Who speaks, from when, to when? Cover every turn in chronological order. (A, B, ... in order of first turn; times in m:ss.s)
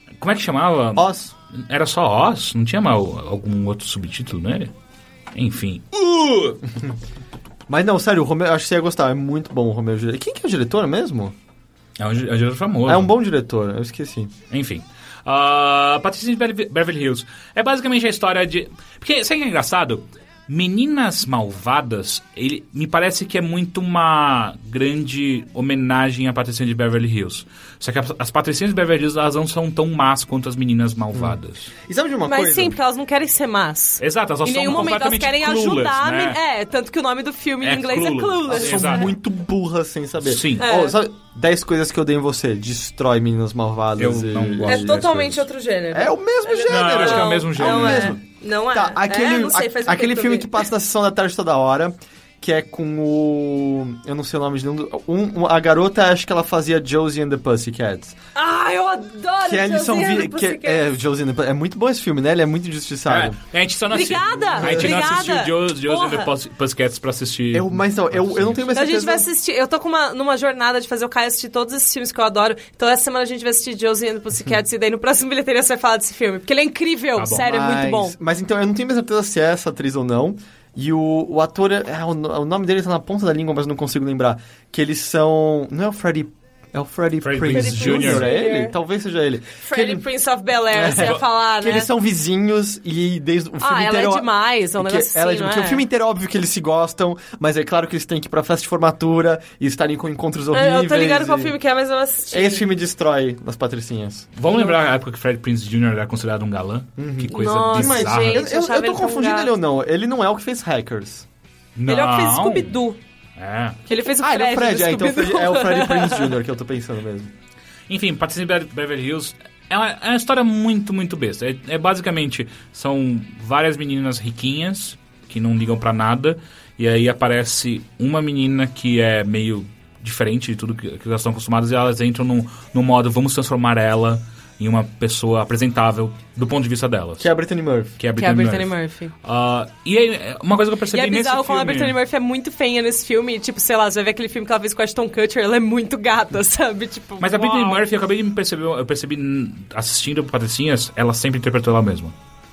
0:00.2-0:04.7 A
0:01.0-0:01.3 B
0:05.3-0:06.6 A
0:07.7-0:11.4 B
0:12.0-0:13.2 A
0:12.8-0:14.3 B
0:14.5-0:31.7 A
0:31.1-0:32.8 B
0:32.3-0:39.1 C
0:34.0-0:36.4 A
0:37.6-0:39.2 A
0:38.5-0:45.4 B
0:40.2-0:40.6 A
0:40.6-0:41.0 C
0:44.0-0:45.3 A
0:44.6-0:50.7 C
0:45.9-0:58.2 B
0:46.7-0:48.2 A
0:58.4-1:00.9 C
0:59.4-1:03.4 B
1:03.1-1:08.7 A
1:03.9-1:06.3 C
1:04.5-1:05.1 B
1:07.5-1:09.3 B
1:08.7-1:18.2 C
1:17.2-1:17.4 A
1:17.4-1:30.0 B
1:27.2-1:28.3 A
1:27.5-1:28.8 C
1:29.6-1:31.9 C
1:30.7-1:41.6 B
1:30.9-1:31.2 A
1:33.6-1:35.8 C
1:40.5-1:42.7 C
1:42.3-1:44.3 B
1:44.4-1:48.4 A
1:47.0-1:51.3 B
1:47.3-1:49.5 C
1:51.8-1:52.8 A
1:51.9-1:53.0 C
1:53.4-1:53.8 A
1:53.9-1:56.4 C
1:54.2-1:57.3 B
1:57.9-2:17.3 A
2:17.2-2:18.0 B
2:18.0-2:22.0 A
2:18.2-2:19.1 C
2:20.9-2:27.8 C
2:27.2-2:32.1 A